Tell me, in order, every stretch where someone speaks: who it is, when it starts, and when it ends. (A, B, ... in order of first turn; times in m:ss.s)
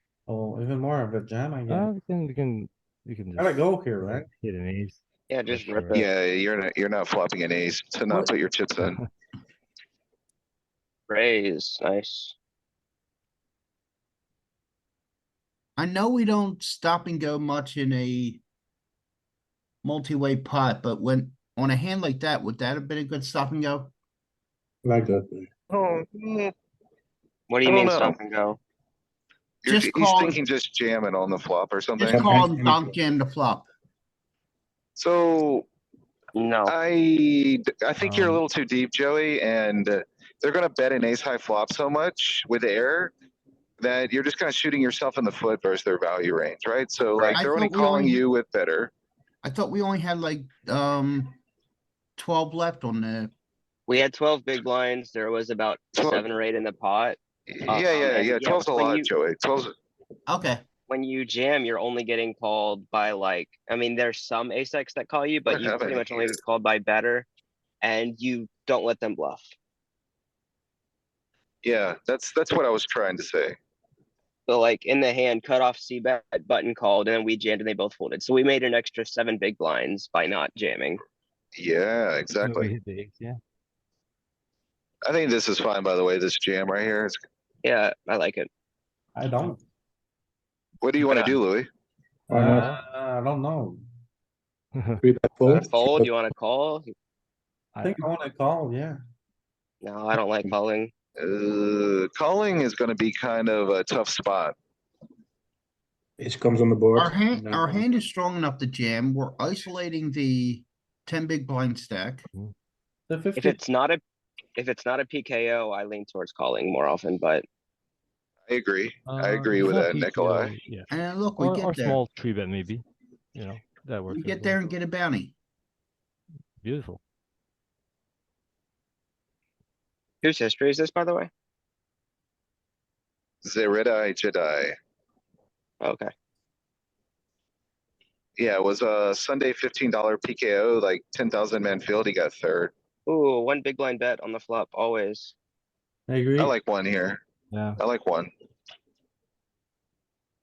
0:00.3-0:01.9 A
0:01.7-0:06.0 B
0:03.4-0:04.3 A
0:05.3-0:06.1 C
0:05.9-0:09.0 D
0:08.8-0:09.1 B
0:11.1-0:12.3 C
0:15.8-0:18.4 E
0:19.8-0:23.9 E
0:24.8-0:25.5 F
0:25.7-0:26.5 D
0:27.5-0:28.6 C
0:27.6-0:28.2 D
0:29.6-0:32.2 D
0:29.6-0:30.4 E
0:32.0-0:33.6 E
0:32.0-0:33.0 F
0:35.0-0:35.6 D
0:36.3-0:36.7 C
0:36.6-0:43.1 D
0:38.0-0:38.4 B
0:43.8-0:48.9 D
0:47.3-0:48.2 E
0:49.4-0:51.4 E
0:52.2-0:53.3 E
0:53.9-0:59.1 C
0:56.0-0:56.2 D
0:57.5-0:59.7 D
1:00.3-1:00.6 E
1:00.9-1:07.3 C
1:05.4-1:06.4 D
1:07.8-1:09.5 C
1:11.6-1:13.6 D
1:14.5-1:21.0 C
1:21.5-1:22.7 D
1:22.4-1:23.4 B
1:25.0-1:27.2 D
1:27.6-1:28.5 C
1:29.1-1:29.6 A
1:30.8-1:31.7 D
1:32.3-1:32.7 F
1:32.3-1:33.8 A
1:32.5-1:32.8 B
1:34.7-1:35.0 B
1:35.0-1:36.1 F
1:35.4-1:36.9 C
1:37.7-1:38.0 B
1:37.8-1:39.0 A
1:39.8-1:40.9 C
1:41.2-1:44.5 D
1:46.2-1:47.1 F
1:46.9-1:52.2 E
1:47.3-1:48.0 A
1:53.1-1:53.6 A
1:53.4-1:54.0 C
1:54.6-1:57.4 C
1:58.5-2:00.5 D
1:59.0-2:04.7 B
2:00.9-2:02.0 E
2:04.1-2:05.3 E
2:06.6-2:07.0 B
2:10.2-2:11.3 C
2:13.4-2:14.7 D
2:15.8-2:16.1 C
2:18.4-2:22.7 D
2:23.0-2:25.3 C
2:26.1-2:26.5 A
2:26.4-2:27.2 D
2:27.5-2:27.8 B
2:27.8-2:28.3 D